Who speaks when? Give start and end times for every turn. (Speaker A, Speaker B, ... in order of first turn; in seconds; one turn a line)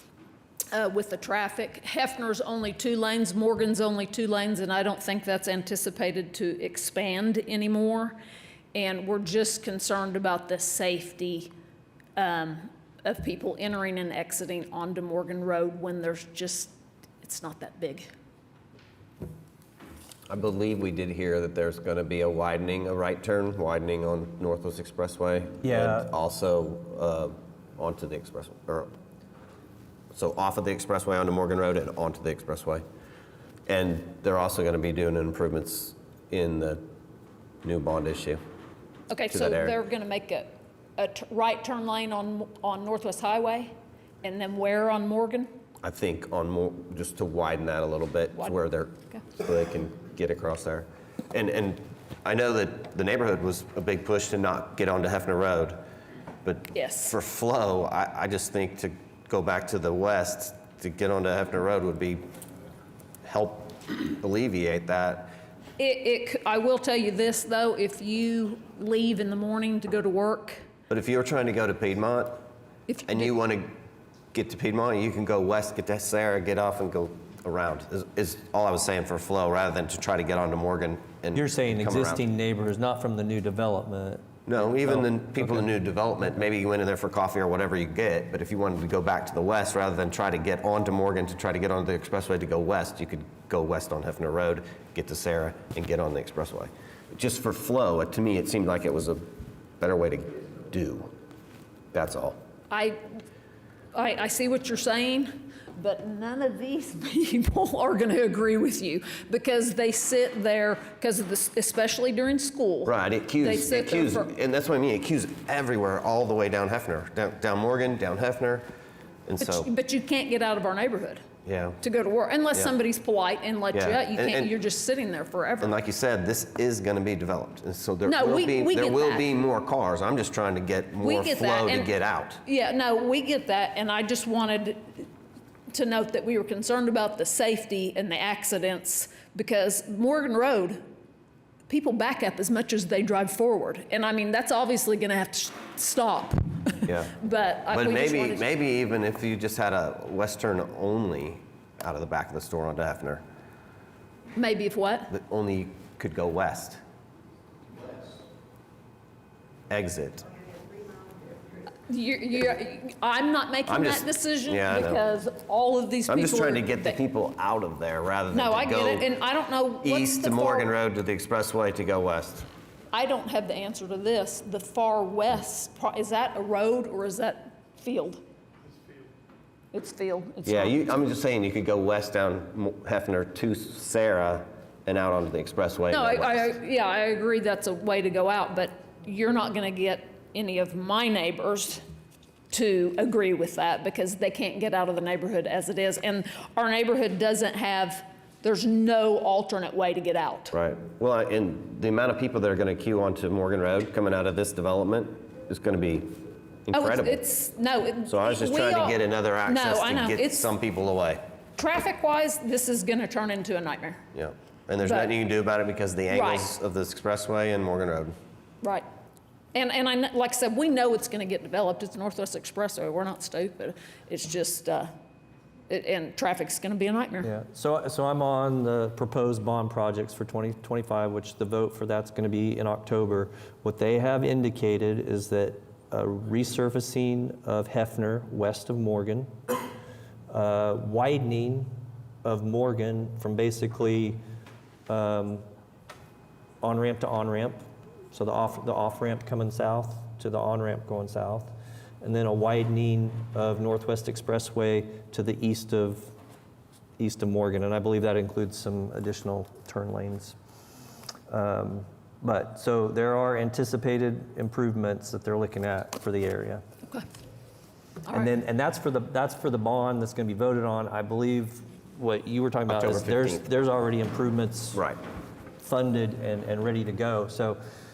Speaker A: 0.7-8.2
Speaker A: 8.7-11.5
Speaker A: 12.2-18.1
Speaker B: 20.3-28.9
Speaker C: 25.6-26.1
Speaker B: 30.1-32.8
Speaker B: 33.7-36.8
Speaker B: 37.6-38.4
Speaker A: 39.1-45.5
Speaker B: 39.3-39.8
Speaker B: 45.8-55.8
Speaker B: 56.4-62.2
Speaker A: 56.7-57.2
Speaker B: 63.2-65.3
Speaker A: 65.8-70.7
Speaker B: 70.9-72.4
Speaker A: 72.9-73.3
Speaker B: 73.1-73.7
Speaker B: 74.3-82.2
Speaker C: 81.3-84.2
Speaker B: 84.5-99.2
Speaker C: 84.8-85.7
Speaker B: 99.8-101.1
Speaker B: 101.9-102.4
Speaker A: 102.7-103.0
Speaker A: 103.9-114.3
Speaker B: 112.8-118.6
Speaker B: 119.2-119.7
Speaker A: 119.4-121.2
Speaker B: 121.5-121.8
Speaker A: 121.8-125.7
Speaker B: 123.7-124.5
Speaker B: 125.6-132.4
Speaker A: 128.1-129.3
Speaker A: 131.0-131.9
Speaker A: 132.4-135.1
Speaker A: 135.7-140.8
Speaker A: 141.7-148.5
Speaker B: 146.8-147.1
Speaker B: 147.7-153.2
Speaker A: 154.3-155.1
Speaker B: 155.1-156.8
Speaker B: 159.7-160.2
Speaker A: 161.9-167.0
Speaker B: 163.7-165.0
Speaker B: 166.1-169.1
Speaker A: 168.3-170.7
Speaker B: 169.8-172.5
Speaker A: 172.9-178.2
Speaker A: 179.7-180.8
Speaker B: 180.4-186.5
Speaker A: 185.9-191.8
Speaker A: 192.5-200.5
Speaker B: 200.5-206.1
Speaker B: 206.7-207.2
Speaker A: 206.7-210.5
Speaker B: 208.1-211.2
Speaker A: 211.6-214.0
Speaker B: 214.1-218.1
Speaker A: 214.8-215.1
Speaker A: 216.1-216.5
Speaker A: 219.5-224.9
Speaker A: 225.7-227.3
Speaker C: 227.2-239.3
Speaker C: 240.3-241.7
Speaker C: 242.2-244.2
Speaker C: 244.9-245.4
Speaker C: 246.6-247.6
Speaker C: 248.1-256.1
Speaker C: 257.0-260.4
Speaker C: 261.3-266.6
Speaker C: 268.1-274.8
Speaker B: 272.7-273.4
Speaker B: 274.7-275.0
Speaker C: 275.6-277.6